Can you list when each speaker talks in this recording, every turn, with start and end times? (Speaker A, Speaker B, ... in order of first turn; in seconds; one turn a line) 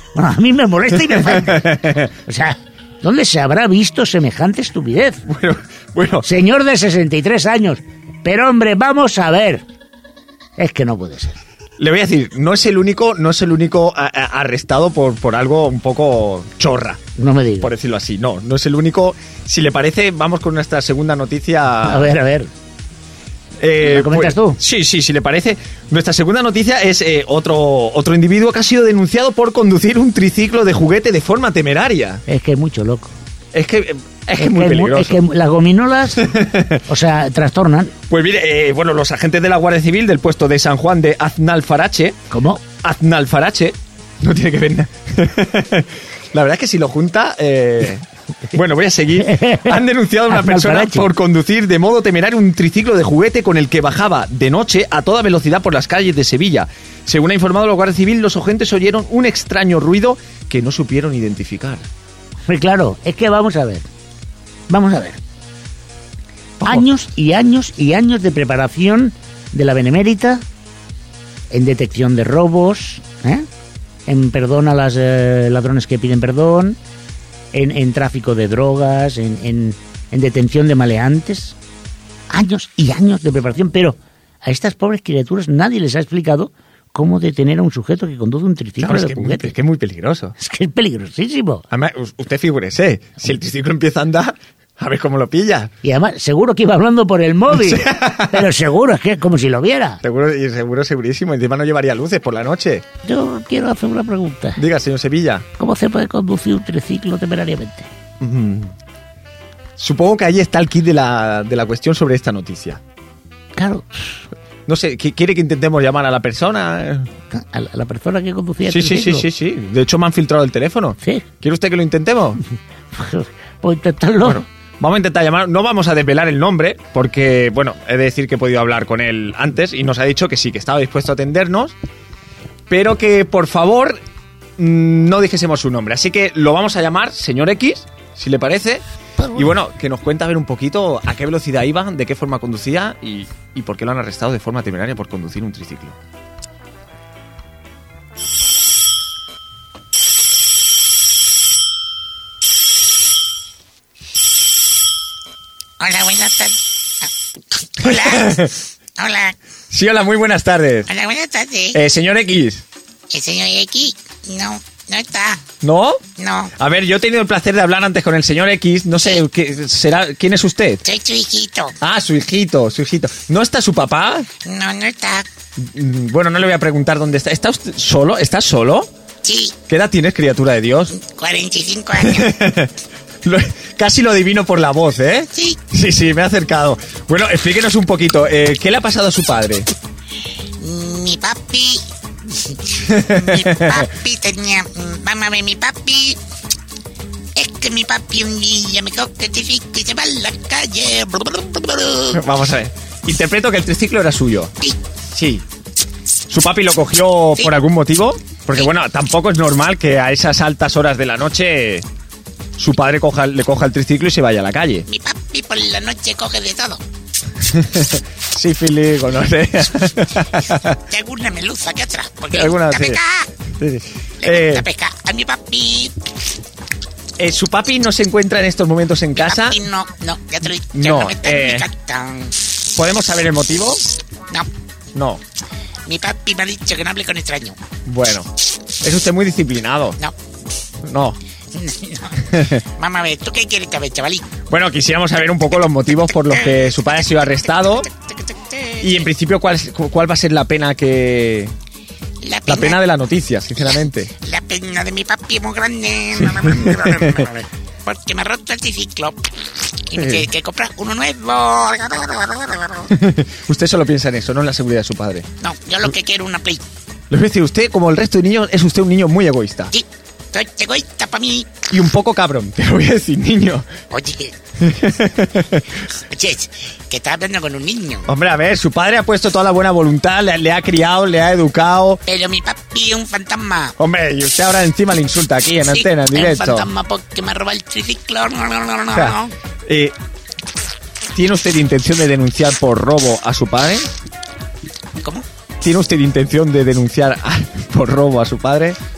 Speaker A: 0.1-5.2
Speaker B: 0.9-2.1
Speaker B: 5.3-6.3
Speaker A: 6.2-9.6
Speaker A: 10.6-11.4
Speaker B: 11.8-17.0
Speaker A: 17.1-17.7
Speaker B: 17.6-22.1
Speaker A: 21.8-22.5
Speaker B: 23.6-32.2
Speaker A: 23.8-24.6
Speaker A: 32.3-33.1
Speaker B: 33.5-35.2
Speaker A: 34.4-36.3
Speaker B: 36.1-36.8
Speaker A: 36.8-37.9
Speaker B: 38.1-42.2
Speaker A: 42.3-42.6
Speaker B: 42.8-61.9
Speaker A: 49.2-51.1
Speaker A: 62.5-63.8
Speaker A: 64.7-65.2
Speaker B: 66.6-66.9
Speaker A: 66.7-70.4
Speaker A: 71.5-73.5
Speaker A: 74.1-76.8
Speaker A: 77.5-81.5
Speaker A: 82.3-89.5
Speaker B: 88.8-90.3
Speaker A: 90.4-91.6
Speaker B: 91.7-95.7
Speaker A: 95.8-100.0
Speaker B: 97.5-98.5
Speaker B: 100.0-102.8
Speaker A: 103.0-104.6
Speaker B: 104.5-105.4
Speaker A: 105.6-107.9
Speaker B: 108.2-108.7
Speaker B: 109.8-112.8
Speaker A: 113.5-114.2
Speaker B: 114.7-117.1
Speaker A: 117.3-119.2
Speaker B: 118.7-122.4
Speaker A: 122.9-124.4
Speaker B: 124.2-131.7
Speaker B: 132.7-134.0
Speaker B: 134.6-146.0
Speaker C: 155.8-157.1
Speaker C: 157.8-158.3
Speaker B: 157.8-158.6
Speaker C: 159.0-159.3
Speaker B: 159.7-160.9
Speaker C: 160.9-161.8
Speaker B: 161.7-162.6
Speaker C: 163.1-165.4
Speaker B: 165.6-166.0
Speaker C: 166.2-166.5
Speaker B: 166.6-170.8
Speaker C: 170.8-171.7
Speaker B: 171.8-174.3
Speaker C: 174.4-175.2
Speaker B: 175.6-178.9
Speaker C: 179.2-179.5
Speaker B: 179.7-181.0
Speaker C: 180.9-182.3
Speaker B: 182.0-182.7
Speaker B: 183.2-189.7
Speaker C: 190.6-191.8
Speaker C: 192.4-196.2
Speaker B: 192.8-193.9
Speaker C: 197.3-202.2
Speaker B: 202.1-204.5
Speaker B: 205.1-205.4
Speaker B: 206.3-211.8
Speaker B: 212.6-214.9
Speaker C: 214.9-216.8
Speaker B: 217.4-220.8
Speaker C: 220.9-223.3
Speaker B: 222.3-223.0
Speaker B: 223.5-224.7
Speaker C: 224.2-225.9
Speaker B: 227.2-229.6
Speaker C: 229.2-232.4
Speaker B: 230.7-231.7
Speaker B: 232.7-233.9
Speaker B: 234.9-235.2
Speaker C: 235.9-237.6
Speaker B: 237.8-238.3
Speaker B: 238.8-240.0
Speaker B: 240.8-241.2
Speaker C: 241.5-244.3
Speaker B: 242.3-242.6
Speaker B: 244.5-247.9
Speaker C: 248.0-248.9
Speaker B: 248.8-251.5
Speaker C: 252.2-252.7
Speaker B: 252.5-254.1
Speaker C: 254.2-262.9
Speaker B: 256.1-257.3
Speaker B: 259.9-260.2
Speaker B: 262.9-265.3
Speaker C: 265.4-266.6
Speaker B: 267.1-269.7
Speaker C: 269.7-271.7
Speaker B: 271.7-273.7
Speaker C: 273.9-274.3
Speaker B: 274.6-275.8
Speaker C: 275.9-278.1
Speaker B: 278.1-282.0
Speaker C: 282.1-283.7
Speaker B: 283.8-286.7
Speaker C: 286.1-289.3
Speaker B: 288.9-289.9
Speaker B: 291.1-293.9
Speaker B: 295.6-298.8